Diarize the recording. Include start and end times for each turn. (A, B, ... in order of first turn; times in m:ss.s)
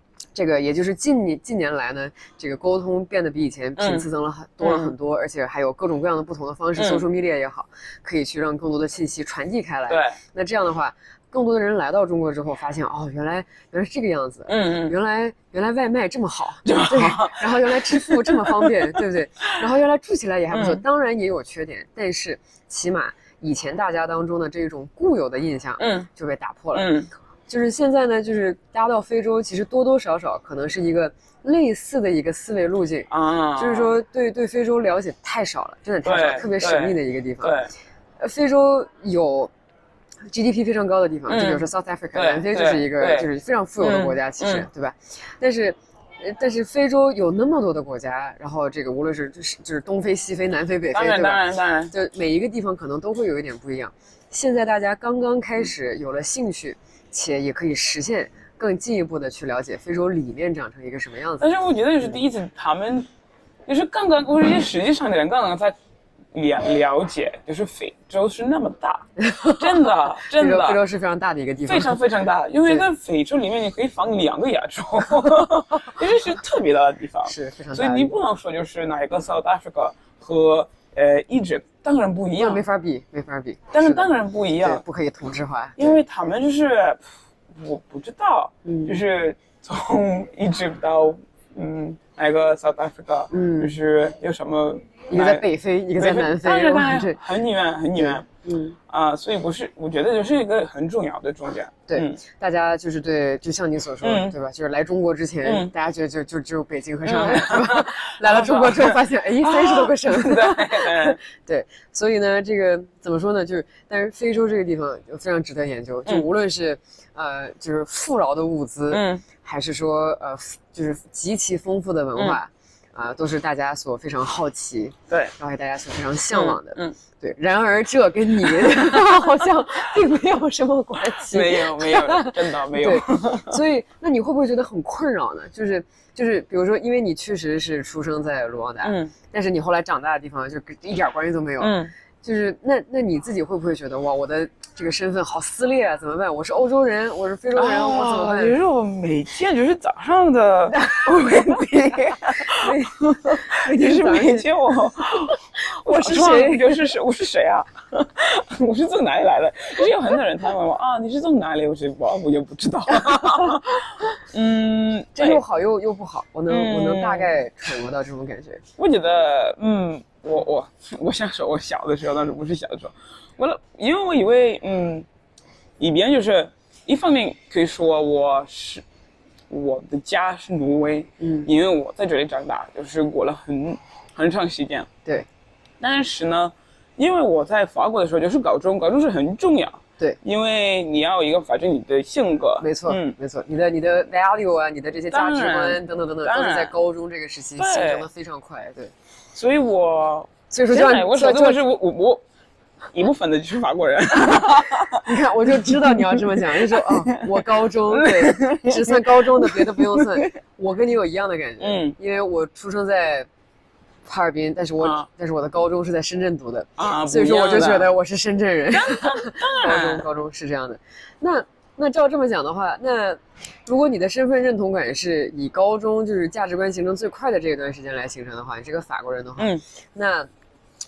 0:00.3-0:26.9 A
0:03.8-0:04.1 B
0:04.6-0:04.9 B
0:06.7-0:07.0 B
0:09.9-0:10.2 B
0:14.5-0:14.9 B
0:16.6-0:19.0 B
0:20.5-0:20.8 B
0:25.8-0:26.1 B
0:26.7-0:27.1 B
0:27.5-0:37.6 A
0:33.1-0:33.9 B
0:36.0-0:37.7 B
0:38.2-0:39.5 A
0:40.3-1:01.5 A
0:41.3-0:43.3 B
0:43.8-0:44.6 B
0:50.9-0:51.9 B
1:01.4-1:03.1 B
1:03.6-1:05.7 B
1:06.3-1:10.8 B
1:09.2-1:12.0 A
1:11.6-1:22.6 B
1:17.2-1:18.1 A
1:22.4-1:24.1 A
1:23.7-1:24.8 B
1:24.6-1:26.0 A
1:25.8-1:35.4 B
1:28.6-1:29.0 A
1:33.3-1:33.8 A
1:35.1-1:37.2 A
1:36.0-1:38.2 B
1:37.9-1:38.8 A
1:38.9-1:42.2 B
1:41.9-2:28.6 A
1:44.0-1:44.4 B
1:45.4-1:45.7 B
1:47.0-1:51.2 B
1:58.9-1:59.2 B
2:06.3-2:07.0 B
2:08.4-2:09.3 B
2:11.1-2:13.6 B
2:18.8-2:19.1 B
2:21.6-2:21.9 B
2:27.5-2:45.4 B
2:30.7-2:31.6 A
2:32.3-2:34.5 A
2:35.8-2:36.8 A
2:42.9-2:44.2 A
2:45.1-2:48.6 A
2:46.5-2:47.3 B
2:48.8-2:55.1 B
2:55.8-2:58.8 B
2:59.5-3:04.9 B
3:01.2-3:01.5 A
3:05.8-3:13.2 B
3:12.6-3:18.9 A
3:15.1-3:16.7 B
3:17.6-3:18.1 B
3:19.3-3:22.2 B
3:20.5-3:21.6 A
3:22.9-3:30.3 B
3:24.3-3:33.3 A
3:31.6-3:31.9 B
3:34.0-3:50.3 A
3:34.8-3:35.1 B
3:36.8-3:37.9 B
3:38.7-3:40.1 B
3:49.4-3:49.6 B